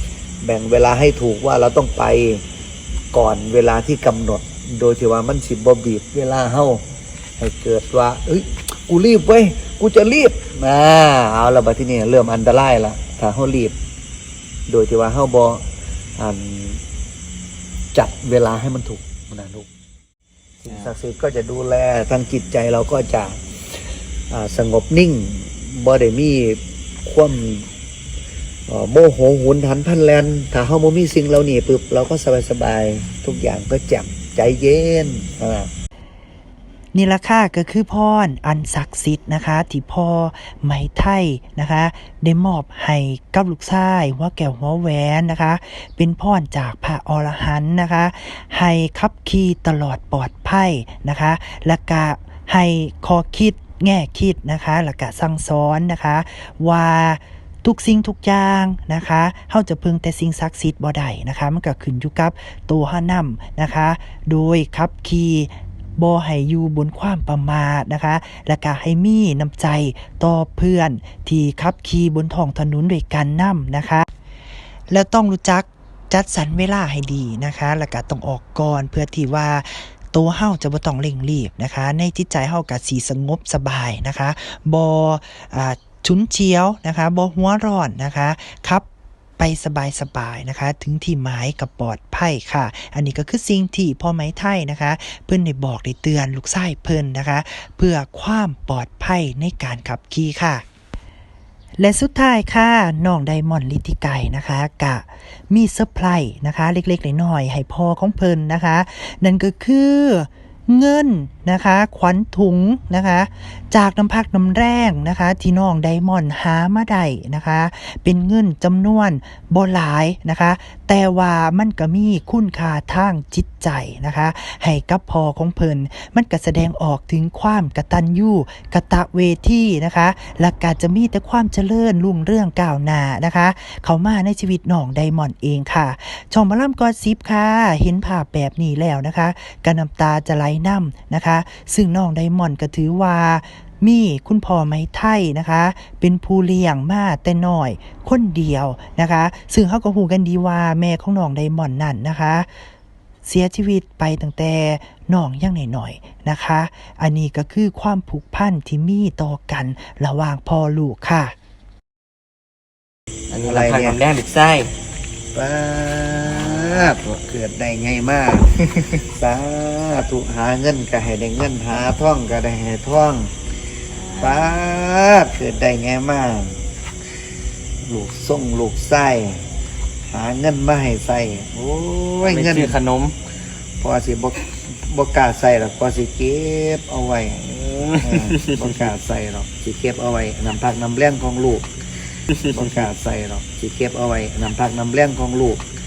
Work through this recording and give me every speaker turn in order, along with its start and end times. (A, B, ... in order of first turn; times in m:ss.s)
0:00.4-0:02.4 A
0:03.1-0:06.8 A
0:07.4-0:13.8 A
0:14.7-0:15.6 A
0:16.2-0:16.8 A
0:17.9-0:19.7 A
0:20.6-0:23.4 A
0:24.3-0:27.7 A
0:28.7-0:35.7 A
0:36.9-1:14.1 B
1:14.9-1:28.8 B
1:29.4-1:40.6 B
1:41.8-2:32.5 B
2:33.2-2:41.3 B
2:43.3-2:44.7 C
2:43.4-2:44.0 A
2:45.3-2:53.3 A
2:54.2-2:56.6 A
2:57.8-2:59.4 A
3:00.1-3:02.8 A
3:02.2-3:03.2 C
3:03.8-3:11.6 A
3:08.1-3:08.6 C
3:12.4-3:15.6 A